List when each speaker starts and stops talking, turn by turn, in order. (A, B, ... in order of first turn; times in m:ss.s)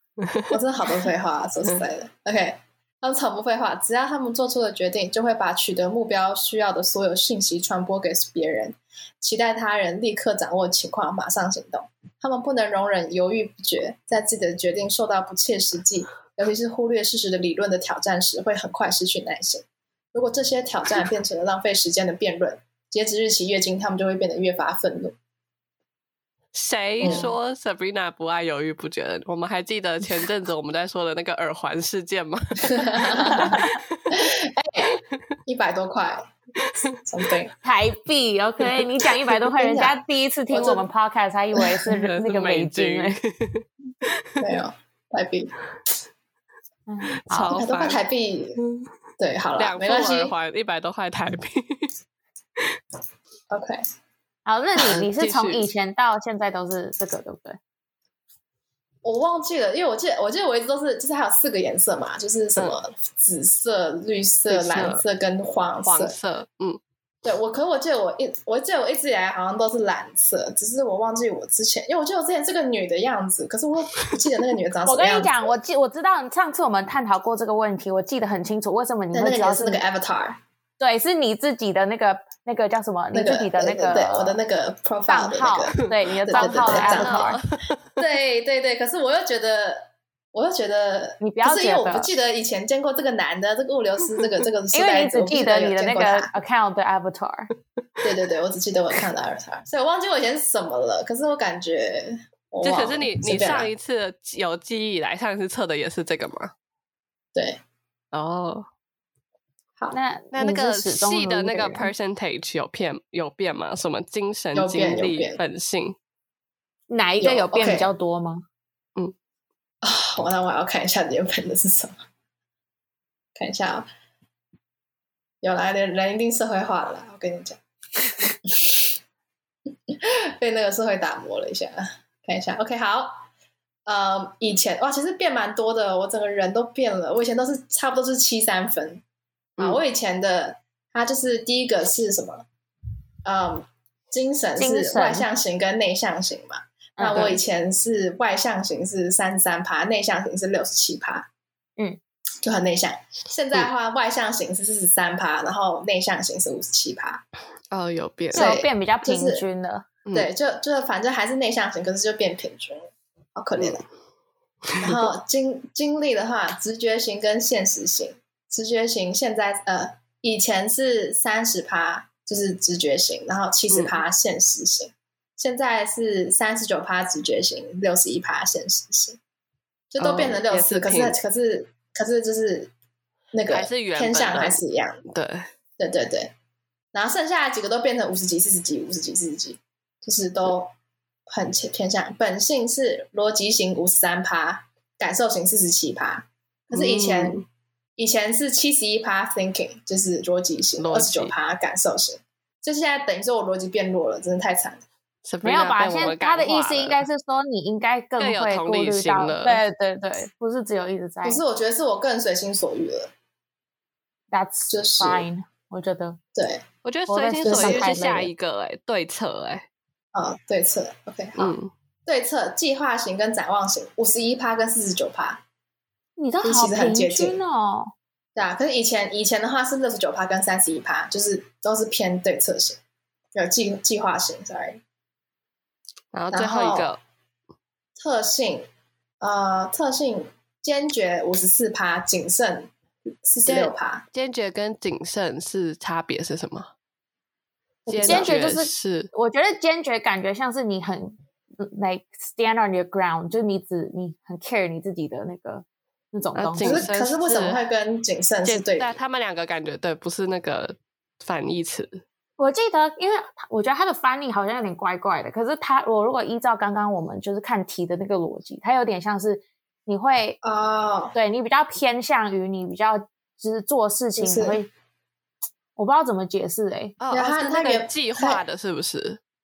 0:00.2-0:00.5 A
0:00.5-0:25.1 B
0:26.5-0:34.1 A
0:27.0-0:27.3 B
0:27.0-0:27.3 C
0:32.6-0:33.6 B
0:33.4-0:33.8 C
0:34.1-0:36.3 B
0:36.6-0:37.0 A
0:36.9-0:37.5 B
0:37.6-0:43.2 C
0:39.6-0:40.0 B
0:40.5-0:40.9 B
0:41.9-0:44.2 A
0:44.4-0:45.5 B
0:46.9-0:47.5 C
0:47.2-0:48.0 A
0:47.5-0:48.6 B
0:49.2-0:50.3 B
0:49.6-0:51.9 A
0:53.5-0:53.8 B
0:54.4-0:57.6 C
0:54.8-0:55.7 A
0:59.0-1:06.2 B
1:04.5-1:05.0 A
1:05.8-1:06.8 A
1:07.2-1:15.5 B
1:14.8-1:19.8 C
1:19.1-1:20.4 B
1:20.8-1:24.4 C
1:23.1-1:27.4 B
1:25.1-1:27.4 C
1:25.8-1:28.0 A
1:28.0-1:36.3 B
1:31.2-1:32.1 C
1:34.7-1:37.5 C
1:38.0-1:43.7 B
1:42.6-1:46.5 A
1:47.3-1:47.6 B
1:48.1-1:48.7 A
1:49.9-1:51.9 C
1:50.3-1:56.0 A
1:54.5-1:55.4 B
1:56.9-1:58.4 C
1:57.2-1:57.9 B
1:59.8-2:02.0 B
2:03.4-2:03.9 B
2:05.4-2:07.6 B
2:08.5-2:09.0 B
2:09.9-2:13.2 B
2:13.8-2:19.0 B
2:19.6-2:22.4 B
2:23.2-2:31.3 B
2:24.6-2:25.3 C
2:27.0-2:27.4 C
2:32.4-2:37.2 B
2:37.7-2:38.5 A
2:38.3-2:39.4 B
2:38.3-2:39.8 C
2:40.1-2:43.8 B
2:44.8-2:59.2 B
2:53.7-2:54.0 A
2:59.9-3:02.7 B
3:00.0-3:01.2 A
3:03.3-3:05.0 B
3:03.5-3:05.5 A
3:05.8-3:06.3 B
3:06.9-3:10.7 B
3:11.3-3:17.4 B
3:16.7-3:17.4 A
3:18.0-3:24.8 B
3:20.8-3:21.3 A
3:25.2-3:27.0 A
3:25.4-3:31.4 C
3:28.2-3:29.6 A
3:31.2-3:33.1 B
3:34.3-3:36.2 C
3:34.7-3:35.3 B
3:36.3-3:36.6 B
3:36.8-3:39.7 A
3:37.1-3:38.3 C
3:37.4-3:37.9 B
3:40.1-3:41.5 B
3:41.4-3:41.7 A
3:42.0-3:45.4 B
3:46.2-3:47.9 C
3:46.4-3:47.4 B
3:48.4-3:52.8 B
3:53.3-3:54.8 B
3:56.1-3:57.0 A
3:56.3-3:56.9 B
3:58.0-3:58.7 B
3:59.2-4:02.7 B
4:03.2-4:04.0 B
4:03.4-4:06.7 A
4:07.8-4:08.3 B
4:07.9-4:09.1 A
4:08.0-4:16.8 C
4:16.4-4:17.6 A
4:16.6-4:19.0 B
4:18.4-4:22.0 A
4:22.4-4:30.4 C
4:30.4-4:31.1 B
4:31.1-4:34.7 C
4:34.2-4:34.6 B
4:35.8-4:37.0 C
4:37.0-4:39.2 A
4:37.1-4:38.4 B